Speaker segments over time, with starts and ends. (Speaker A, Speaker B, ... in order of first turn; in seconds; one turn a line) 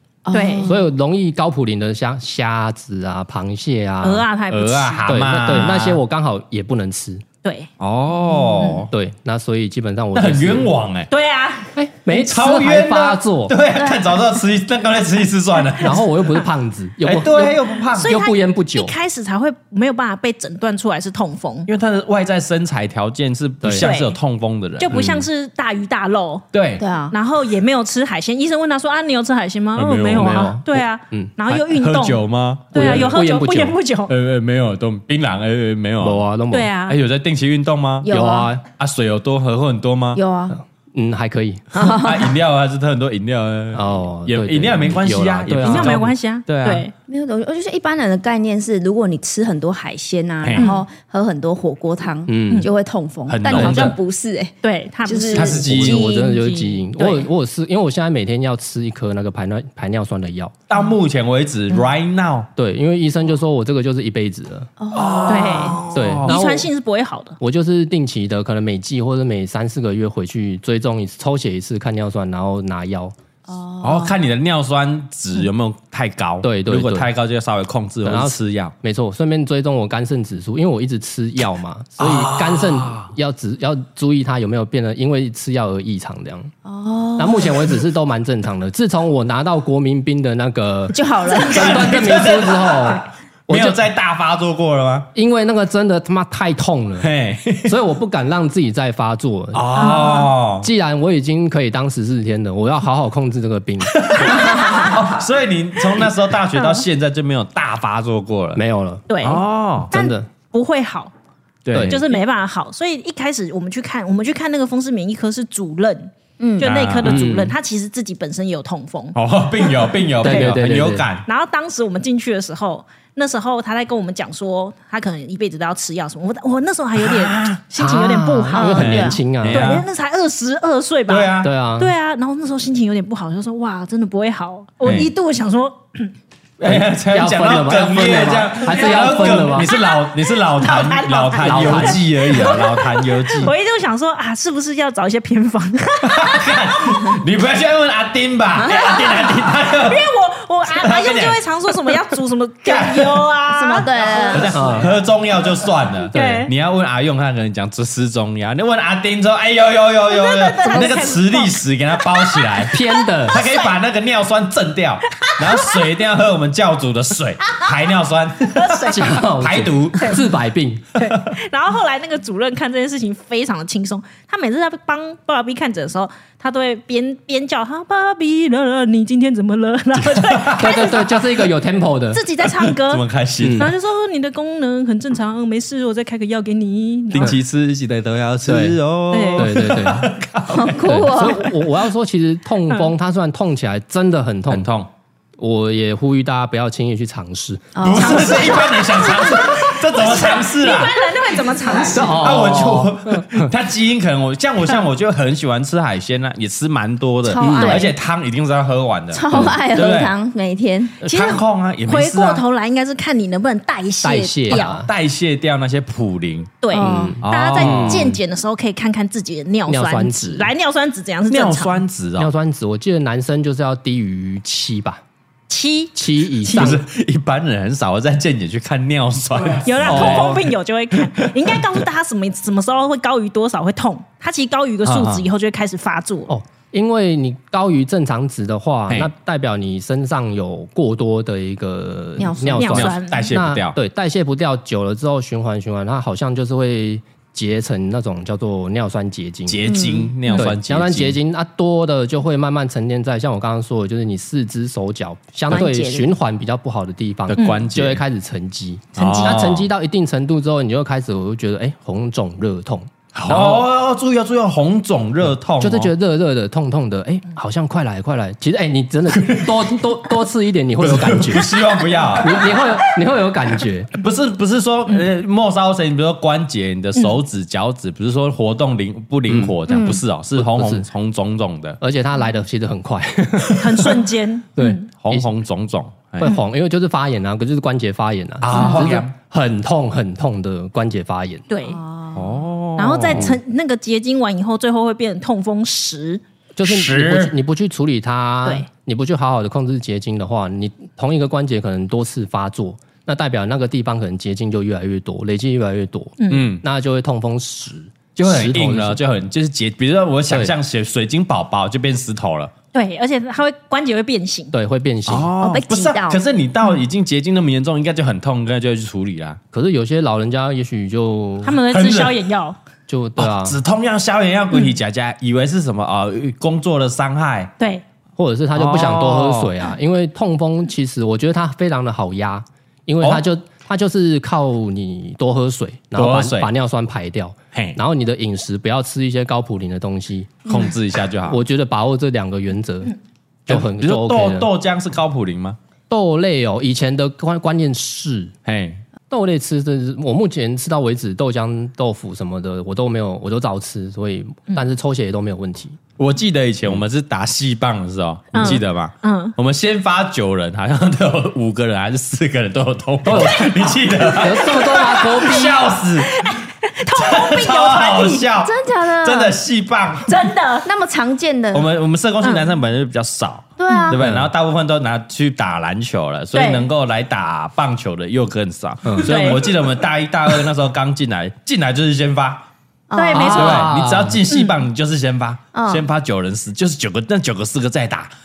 Speaker A: 0.3-0.8
Speaker B: 0.3-0.7
Speaker C: 0.6-4.3
Speaker B: 4.0-5.1
Speaker D: 4.5-6.0
Speaker C: 5.1-7.2
Speaker B: 7.4-7.7
Speaker D: 7.8-8.9
Speaker A: 8.3-8.7
Speaker C: 8.9-10.7
Speaker D: 10.1-11.1
Speaker B: 11.1-11.7
Speaker C: 11.8-13.6
Speaker D: 12.1-16.0
Speaker A: 13.8-14.0
Speaker C: 15.8-18.9
Speaker D: 17.0-18.2
Speaker B: 17.9-21.7
Speaker D: 21.7-25.1
Speaker C: 23.6-23.9
Speaker B: 23.8-24.2
Speaker B: 24.8-26.4
Speaker C: 24.9-25.3
Speaker D: 26.5-26.8
Speaker A: 26.8-27.2
Speaker B: 27.1-34.1
Speaker D: 29.8-30.5
Speaker C: 30.1-31.4
Speaker D: 31.5-33.2
Speaker C: 32.7-33.8
Speaker D: 34.1-36.2
Speaker C: 36.0-36.7
Speaker B: 36.5-37.0
Speaker D: 36.9-38.1
Speaker A: 38.0-38.5
Speaker C: 38.1-38.6
Speaker D: 38.8-40.2
Speaker A: 40.1-40.6
Speaker C: 40.5-41.8
Speaker A: 41.7-42.4
Speaker D: 41.8-46.9
Speaker C: 43.7-46.1
Speaker B: 45.6-46.9
Speaker A: 47.1-56.8
Speaker D: 50.4-50.7
Speaker B: 50.6-50.9
Speaker C: 52.3-52.7
Speaker D: 53.3-54.0
Speaker C: 53.5-53.9
Speaker B: 54.6-55.6
Speaker D: 55.3-56.1
Speaker C: 55.6-60.5
Speaker B: 56.4-57.3
Speaker D: 60.7-62.5
Speaker C: 62.6-64.7
Speaker A: 64.8-65.8
Speaker D: 64.9-66.4
Speaker B: 65.3-67.4
Speaker C: 65.9-66.7
Speaker C: 67.4-73.1
Speaker A: 73.5-74.2
Speaker D: 73.8-78.7
Speaker C: 76.4-77.1
Speaker C: 78.0-86.5
Speaker D: 82.0-83.1
Speaker A: 86.7-87.7
Speaker C: 87.2-93.8
Speaker A: 90.9-91.9
Speaker D: 91.3-95.1
Speaker C: 95.2-97.1
Speaker D: 97.0-97.8
Speaker C: 97.6-104.6
Speaker D: 99.5-100.7
Speaker B: 99.8-100.2
Speaker D: 103.9-108.6
Speaker B: 104.6-104.9
Speaker B: 106.6-106.8
Speaker C: 108.5-109.1
Speaker B: 109.1-111.1
Speaker D: 109.2-109.9
Speaker C: 109.8-110.3
Speaker D: 111.7-112.0
Speaker C: 111.7-112.0
Speaker B: 111.9-119.2
Speaker A: 116.4-116.7
Speaker D: 116.6-117.2
Speaker C: 117.0-117.5
Speaker D: 119.2-121.3
Speaker C: 120.2-121.1
Speaker B: 121.3-136.1
Speaker D: 127.0-127.6
Speaker C: 127.8-129.8
Speaker A: 128.5-129.2
Speaker D: 128.7-129.8
Speaker D: 131.1-131.5
Speaker C: 131.4-131.9
Speaker D: 134.8-135.1
Speaker D: 136.6-143.5
Speaker C: 136.6-139.7
Speaker B: 138.7-147.1
Speaker C: 141.4-142.0
Speaker D: 146.1-150.1
Speaker B: 148.7-149.2
Speaker B: 149.9-154.6
Speaker D: 150.7-152.0
Speaker D: 152.7-153.2
Speaker A: 153.5-154.7
Speaker D: 154.3-170.2
Speaker C: 154.5-154.9
Speaker C: 156.1-156.5
Speaker B: 156.1-156.5
Speaker B: 160.1-162.7
Speaker C: 162.7-163.4
Speaker B: 163.3-163.8
Speaker B: 165.2-165.7
Speaker B: 168.5-169.2
Speaker C: 168.9-171.0
Speaker B: 170.9-181.1
Speaker D: 180.0-180.8
Speaker C: 180.6-182.2
Speaker B: 182.1-183.0
Speaker D: 182.6-183.7
Speaker C: 183.4-183.7
Speaker B: 183.6-187.3
Speaker D: 187.1-191.1
Speaker C: 188.5-188.8
Speaker B: 189.1-189.5
Speaker C: 189.4-190.2
Speaker A: 190.5-191.6
Speaker C: 190.8-194.7
Speaker D: 194.5-194.9
Speaker C: 195.4-198.3
Speaker A: 197.8-199.6
Speaker D: 197.8-201.0
Speaker B: 199.4-202.3
Speaker C: 201.8-203.5
Speaker D: 202.0-210.1
Speaker A: 207.2-207.9
Speaker C: 207.4-207.9
Speaker A: 209.1-211.0
Speaker D: 211.0-212.4
Speaker B: 211.0-214.8
Speaker C: 214.0-214.9
Speaker D: 214.5-216.6
Speaker B: 216.6-221.8
Speaker A: 216.7-217.2
Speaker C: 216.8-218.2
Speaker D: 217.2-218.2
Speaker C: 219.7-220.5
Speaker D: 221.3-222.3
Speaker C: 222.2-225.0
Speaker B: 225.5-226.8
Speaker C: 226.0-226.8
Speaker D: 226.5-230.4
Speaker B: 229.6-236.3
Speaker C: 229.8-230.5
Speaker D: 231.2-231.8
Speaker D: 234.8-235.2
Speaker C: 236.3-249.7
Speaker A: 242.2-242.8
Speaker B: 242.6-243.3
Speaker D: 242.7-243.8
Speaker D: 249.5-251.2
Speaker A: 249.7-250.4
Speaker C: 250.3-263.7
Speaker A: 255.5-256.1
Speaker D: 257.3-258.0
Speaker B: 257.4-257.6
Speaker B: 258.9-259.6
Speaker D: 259.0-259.7
Speaker D: 263.1-265.9
Speaker C: 265.6-271.6
Speaker D: 269.1-269.6
Speaker D: 270.8-272.7
Speaker C: 272.2-273.9
Speaker D: 274.0-281.8
Speaker C: 279.3-279.6
Speaker A: 279.7-280.0
Speaker C: 280.4-280.9
Speaker C: 281.8-284.0
Speaker B: 283.6-284.9
Speaker C: 284.6-285.3
Speaker D: 284.9-286.3
Speaker C: 286.2-291.4
Speaker D: 288.4-289.1
Speaker B: 291.5-291.8
Speaker A: 291.6-292.4
Speaker D: 292.1-293.3
Speaker B: 292.8-296.2
Speaker C: 293.1-293.4
Speaker C: 296.6-309.0
Speaker D: 296.6-297.4
Speaker B: 306.2-306.5
Speaker D: 306.3-306.6
Speaker D: 308.2-312.5
Speaker C: 310.3-310.5
Speaker B: 312.7-314.6
Speaker C: 314.5-315.3
Speaker D: 315.1-319.4
Speaker A: 315.4-316.2
Speaker C: 319.5-321.6
Speaker B: 321.4-322.6
Speaker D: 321.7-322.2
Speaker C: 322.9-323.6
Speaker D: 323.2-327.5
Speaker B: 324.5-324.8
Speaker B: 327.6-327.8
Speaker C: 328.2-340.6
Speaker D: 328.6-329.5
Speaker D: 335.9-336.5
Speaker D: 340.5-341.4
Speaker C: 341.2-342.9
Speaker C: 343.5-344.5
Speaker D: 343.5-345.6
Speaker C: 345.9-348.3
Speaker D: 348.5-348.8
Speaker C: 349.1-355.8
Speaker D: 356.0-366.3
Speaker C: 358.3-358.6
Speaker B: 358.4-359.4
Speaker C: 363.1-365.7
Speaker B: 363.1-368.2
Speaker D: 366.9-370.1
Speaker A: 368.4-369.4
Speaker B: 370.1-370.7
Speaker A: 370.6-371.7
Speaker D: 371.5-382.5
Speaker B: 372.2-372.5
Speaker A: 373.6-374.0
Speaker C: 374.0-374.3
Speaker B: 376.3-376.7
Speaker C: 378.8-379.2
Speaker B: 379.0-379.4
Speaker A: 382.9-384.1
Speaker B: 382.9-383.7
Speaker D: 383.1-388.1
Speaker C: 383.1-384.2
Speaker B: 384.3-384.6
Speaker A: 385.5-385.9